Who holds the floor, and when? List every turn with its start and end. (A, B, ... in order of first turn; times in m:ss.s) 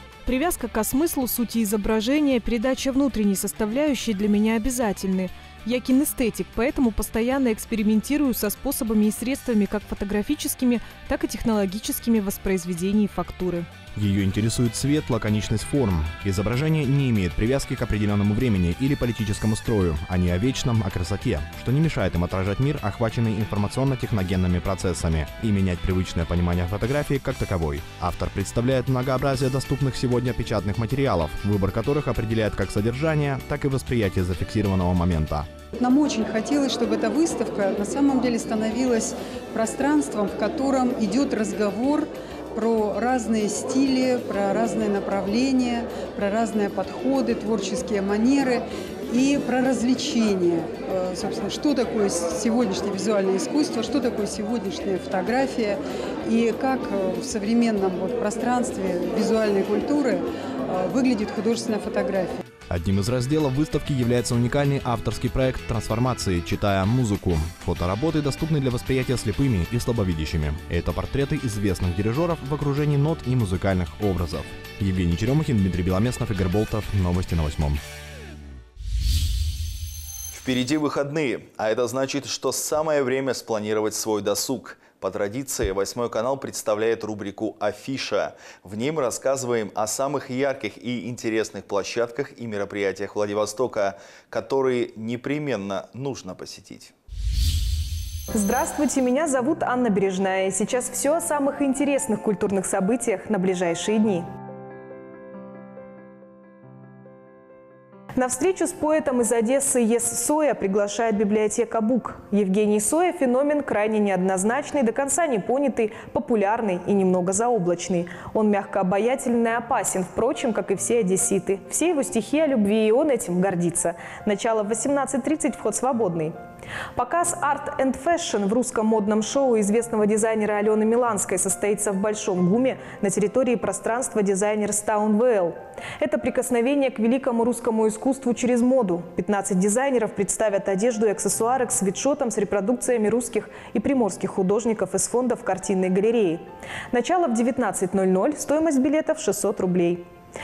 0:00.2-0:13.6 A
0:02.1-0:03.0 B
0:07.4-0:07.8 B
0:12.3-0:12.9 B
0:14.0-0:35.5 C
0:35.8-1:02.4 D
1:02.7-1:17.8 C
1:20.3-1:36.9 E
1:38.3-1:44.3 B
1:48.1-2:06.4 B
2:06.9-2:30.0 B